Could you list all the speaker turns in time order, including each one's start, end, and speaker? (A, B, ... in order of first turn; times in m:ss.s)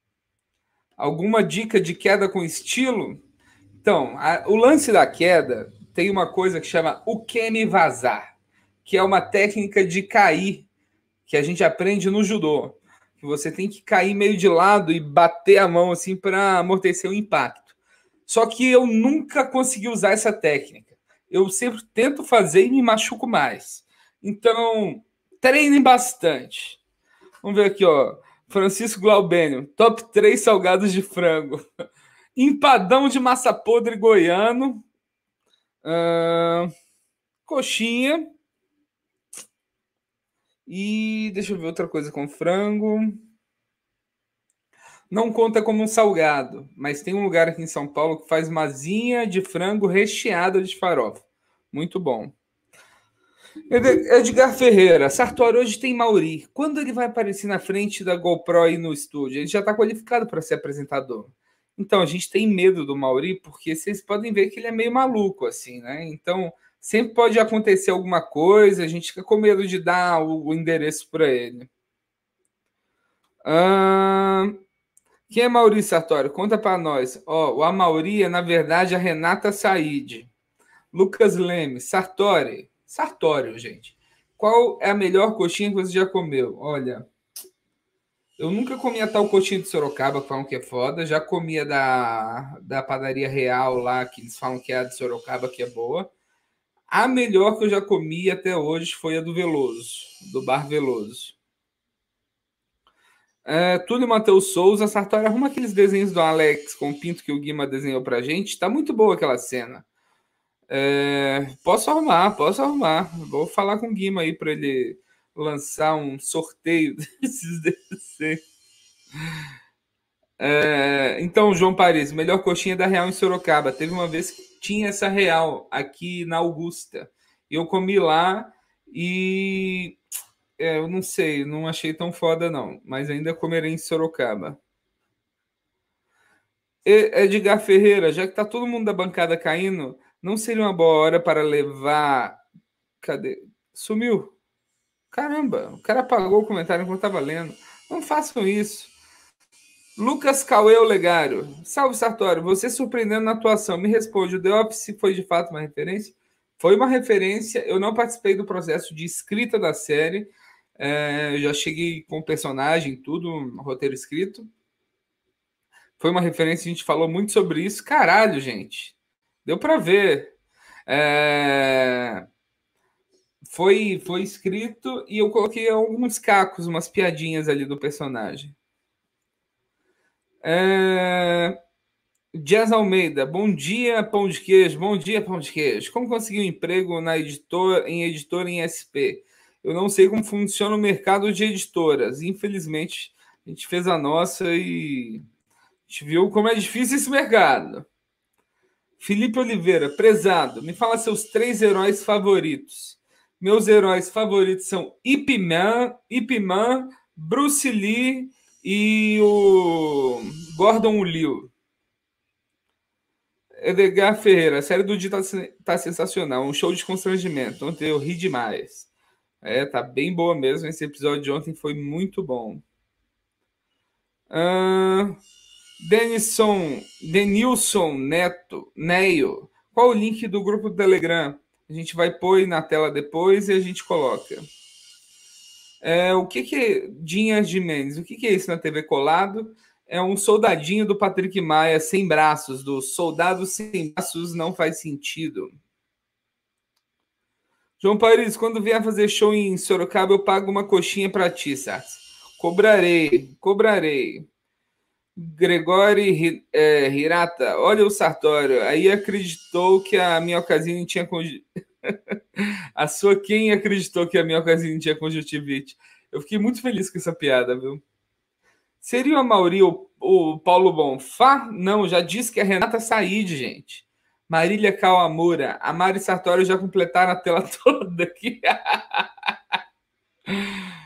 0:01.0-0:03.2 A
0:03.8-0:08.3 A
0:08.8-0:10.7 A
0:11.3-0:17.7 A
0:18.3-0:26.8 A
0:27.4-0:31.6 A
0:32.4-0:34.8 A
0:35.8-0:36.7 A
0:37.5-0:38.3 A
0:40.7-0:43.2 A
0:45.1-0:52.4 A
0:53.7-1:11.7 A
1:13.4-1:14.6 A
1:15.3-1:20.3 A
1:20.9-1:27.1 A
1:28.4-1:36.1 A
1:36.9-1:41.4 A
1:43.5-1:49.8 A
1:50.7-1:58.4 A
2:00.4-2:10.0 A
2:10.6-2:14.6 A
2:16.8-2:22.4 A
2:23.0-2:24.3 A
2:25.1-2:28.9 A
2:30.0-2:44.5 A
2:46.0-2:50.3 A
2:50.9-2:52.2 A
2:53.4-2:58.5 A
3:00.4-3:01.6 A
3:02.3-3:15.2 A
3:15.9-3:17.9 A
3:19.0-3:31.5 A
3:33.6-3:38.9 A
3:39.4-3:42.6 A
3:44.3-3:45.2 A
3:45.8-3:54.5 A
3:55.8-4:05.6 A
4:07.8-4:14.3 A
4:15.2-4:27.8 A
4:28.8-4:39.1 A
4:40.3-4:40.6 A